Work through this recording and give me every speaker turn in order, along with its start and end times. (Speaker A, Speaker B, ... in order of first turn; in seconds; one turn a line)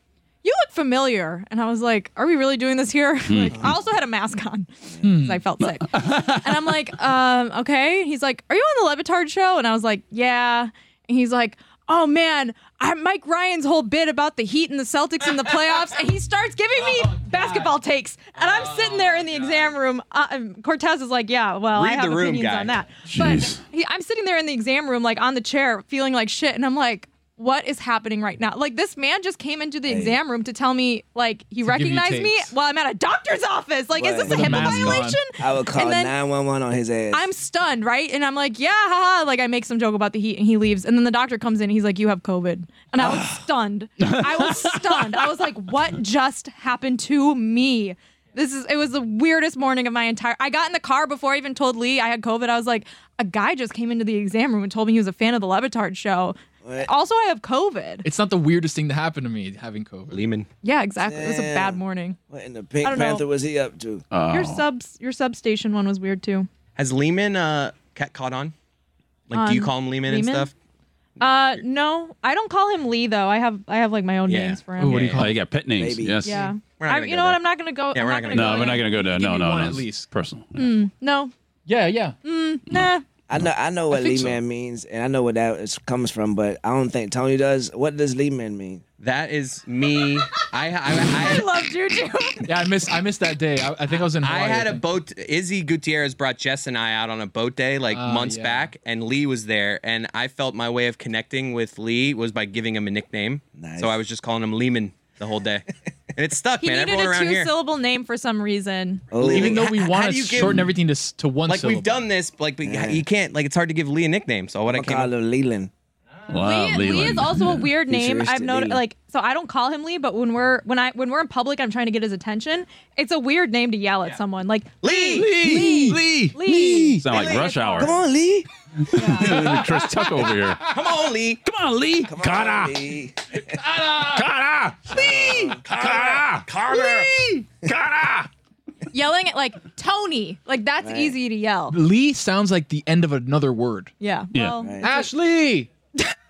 Speaker A: 0.4-36.1
Speaker B: 3.3-3.7
Speaker C: 5.0-5.4
Speaker B: 5.6-6.8
Speaker D: 21.7-22.8
Speaker B: 23.1-23.6
Speaker E: 29.9-30.2
Speaker C: 31.6-32.5
Speaker E: 33.9-34.8
Speaker C: 34.3-35.2
Speaker E: 35.4-37.3
Speaker A: 37.1-58.0
Speaker B: 44.0-45.3
Speaker E: 56.6-56.9
Speaker C: 58.0-60.2
Speaker D: 60.1-60.5
Speaker A: 60.6-62.2
Speaker E: 61.0-64.1
Speaker A: 62.8-63.2
Speaker B: 64.1-64.7
Speaker A: 64.3-66.5
Speaker D: 66.8-68.5
Speaker D: 69.3-70.5
Speaker A: 69.3-70.5
Speaker A: 71.2-75.2
Speaker D: 74.3-75.2
Speaker C: 74.8-75.3
Speaker B: 75.1-76.4
Speaker E: 75.8-76.4
Speaker A: 76.2-79.0
Speaker D: 76.8-78.8
Speaker B: 78.3-80.8
Speaker C: 78.9-80.1
Speaker A: 80.5-81.3
Speaker C: 81.7-82.2
Speaker A: 82.2-83.0
Speaker E: 83.3-88.8
Speaker C: 84.0-84.3
Speaker D: 89.0-91.5
Speaker A: 91.0-92.5
Speaker C: 92.4-94.8
Speaker D: 94.2-107.5
Speaker C: 97.9-98.7
Speaker E: 103.6-104.0
Speaker A: 106.6-109.1
Speaker E: 109.1-109.7
Speaker D: 109.2-110.7
Speaker C: 109.2-112.0
Speaker B: 110.4-110.7
Speaker D: 111.5-115.1
Speaker E: 112.6-113.0
Speaker E: 114.7-115.7
Speaker B: 116.3-117.7
Speaker A: 116.3-127.9
Speaker E: 117.8-118.8
Speaker D: 124.8-125.6
Speaker B: 125.1-127.9
Speaker D: 127.0-127.8
Speaker E: 127.8-128.5
Speaker B: 128.9-130.8
Speaker A: 128.9-129.5
Speaker C: 129.3-129.7
Speaker D: 130.7-131.4
Speaker B: 131.4-132.8
Speaker E: 132.1-133.6
Speaker C: 133.8-134.1
Speaker B: 133.9-138.3
Speaker E: 134.9-136.2
Speaker A: 138.9-141.8
Speaker E: 140.8-141.2
Speaker C: 141.7-143.9
Speaker A: 144.0-145.1
Speaker B: 144.3-144.6
Speaker E: 144.6-144.9
Speaker C: 144.8-145.7